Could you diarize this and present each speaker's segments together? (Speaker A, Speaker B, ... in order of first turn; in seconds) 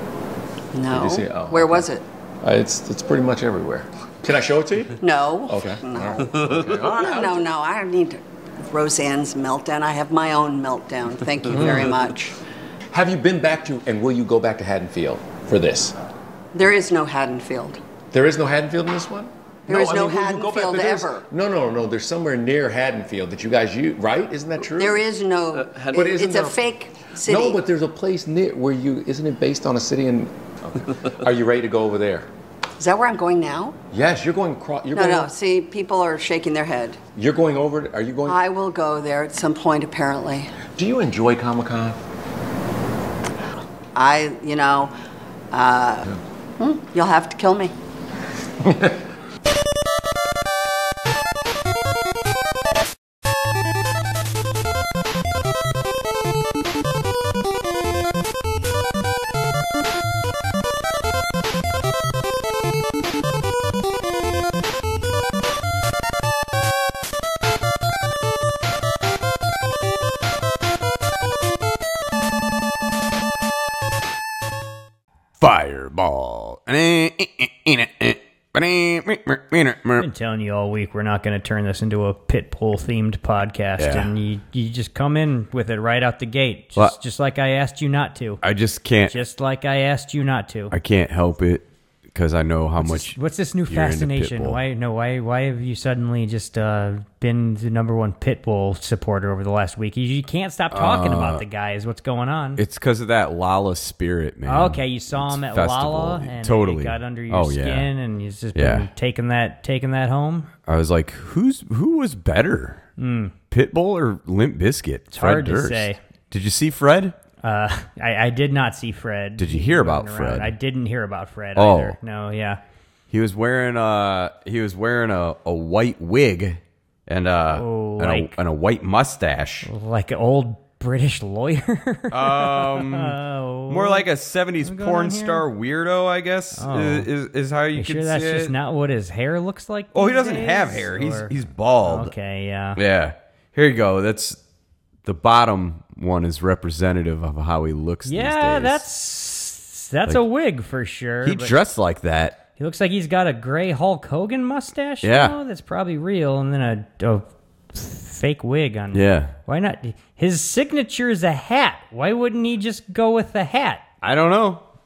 Speaker A: 0.7-2.0, 5.0-12.3, 16.5-17.8, 19.7-21.2, 24.6-27.6, 32.8-33.7, 34.9-37.0, 38.2-40.5, 43.9-44.9, 45.5-46.0, 46.6-47.7
Speaker B: 0.9-1.9, 2.4-7.5, 11.5-12.0, 12.9-15.9, 18.1-25.0, 25.7-26.6, 27.2-32.3, 33.9-35.3, 37.1-38.4, 40.8-42.0
Speaker C: 75.4-80.1, 83.8-84.1, 88.4-89.2, 90.7-93.2, 93.7-94.6, 100.7-101.4, 102.6-107.9, 108.5-108.9, 110.7-112.8, 113.5-117.1, 119.4-120.5, 121.5-122.0, 123.1-129.7, 132.1-133.2, 133.7-138.5, 139.9-142.1, 142.8-144.4, 145.0-148.8, 151.2-152.4, 155.0-155.3, 158.9-159.3, 164.0-164.6
Speaker D: 80.0-88.4, 89.0-90.7, 92.8-102.6, 104.5-110.5, 113.0-113.3, 115.1-116.0, 117.4-122.6, 127.5-128.3, 129.6-134.1, 134.6-135.4, 136.5-137.1, 137.7-142.8, 148.1-151.5, 152.6-163.8